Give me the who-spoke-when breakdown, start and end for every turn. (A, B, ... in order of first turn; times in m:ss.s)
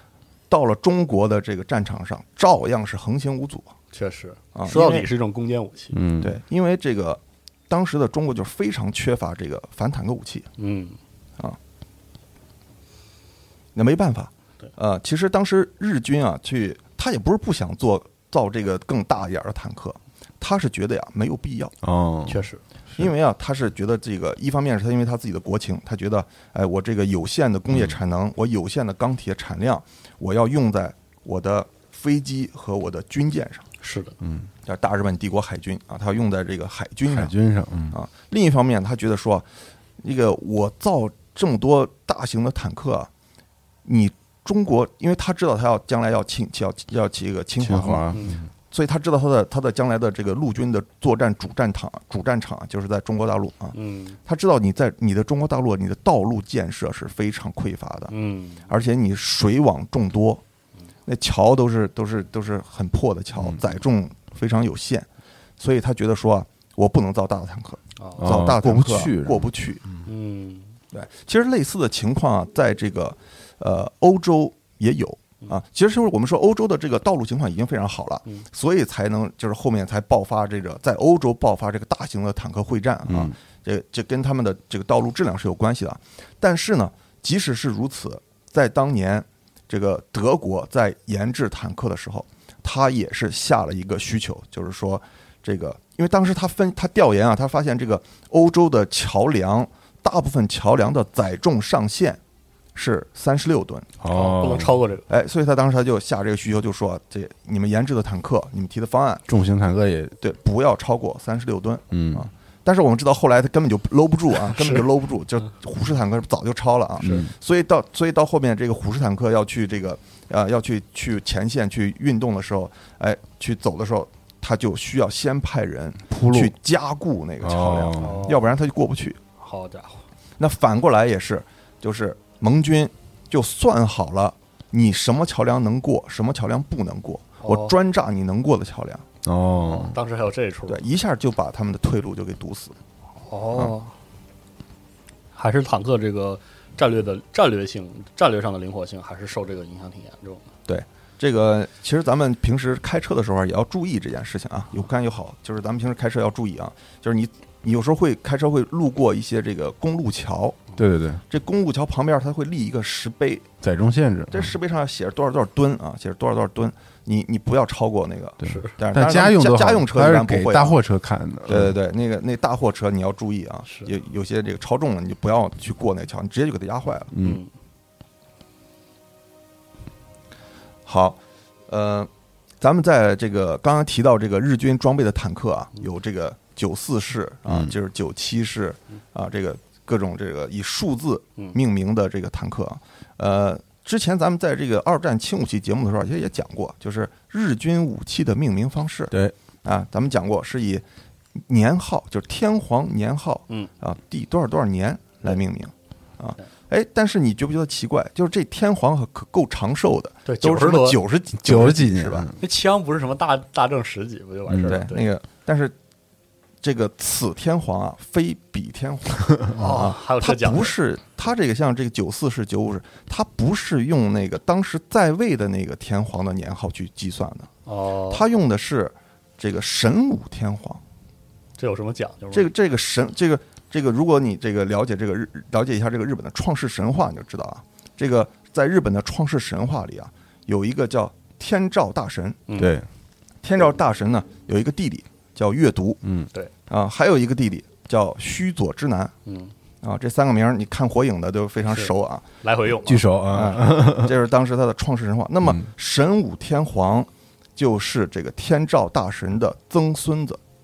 0:00.5-0:03.7 A
0:03.9-0:06.0 B
0:04.5-0:05.1 A
0:05.9-0:06.4 C
0:06.2-0:10.5 A
0:10.6-0:11.0 B
0:13.7-0:21.7 A
0:21.8-0:22.4 C
0:22.3-0:22.6 B
0:23.0-0:33.6 A
0:27.7-0:28.0 C
0:33.8-0:34.1 B
0:34.2-0:34.5 C
0:34.6-0:37.3 A
0:37.1-0:38.0 C
0:37.9-0:39.5 A
0:40.0-0:43.1 A
0:43.8-0:58.1 A
0:47.6-0:48.5 C
0:53.7-0:54.2 B
0:58.1-0:58.7 B
0:58.7-1:00.4 A
1:01.0-1:05.1 A
1:05.6-1:09.8 A
1:08.0-1:08.3 B
1:08.2-1:09.5 C
1:10.0-1:10.7 B
1:10.9-1:42.2 A
1:23.1-1:23.4 C
1:42.7-1:43.9 A
1:44.0-1:44.8 C
1:44.1-1:45.0 B
1:45.1-1:49.2 A
1:49.3-1:50.2 C
1:50.2-2:09.2 A
1:51.9-1:52.3 C
1:54.5-1:54.8 B
1:57.0-1:57.3 C
2:06.1-2:06.5 C
2:07.4-2:08.3 C
2:08.0-2:08.5 B
2:09.4-2:10.0 B
2:10.4-2:19.0 A
2:17.4-2:17.8 B
2:19.2-2:20.0 C
2:19.6-2:20.8 B
2:20.7-2:22.8 A
2:23.2-2:23.9 B
2:25.3-2:30.4 B
2:30.7-2:40.7 A
2:40.8-2:41.2 C
2:41.3-2:43.5 A
2:43.6-2:44.5 C
2:44.3-2:50.8 A
2:48.4-2:51.8 C
2:48.4-2:48.8 B
2:51.5-2:57.1 A
2:57.1-2:57.4 C
2:57.2-2:57.5 B
3:00.8-3:02.1 A
3:02.6-3:20.8 A
3:07.5-3:07.7 C
3:21.4-3:32.3 A
3:30.2-3:31.0 B
3:31.4-3:32.4 C
3:32.4-3:35.1 B
3:34.5-3:34.8 C
3:34.6-3:35.7 A
3:36.6-3:47.5 A
3:39.5-3:40.7 B
3:47.6-3:48.2 B
3:48.1-3:50.8 A
3:51.6-3:52.5 B
3:52.3-4:02.4 A
4:02.5-4:02.8 B
4:02.6-4:02.8 C
4:03.4-4:06.0 A
4:06.0-4:06.3 C
4:06.7-4:09.1 A
4:09.2-4:09.5 B
4:09.8-4:12.3 A
4:11.7-4:13.1 B
4:12.8-4:14.1 C
4:13.3-4:20.4 A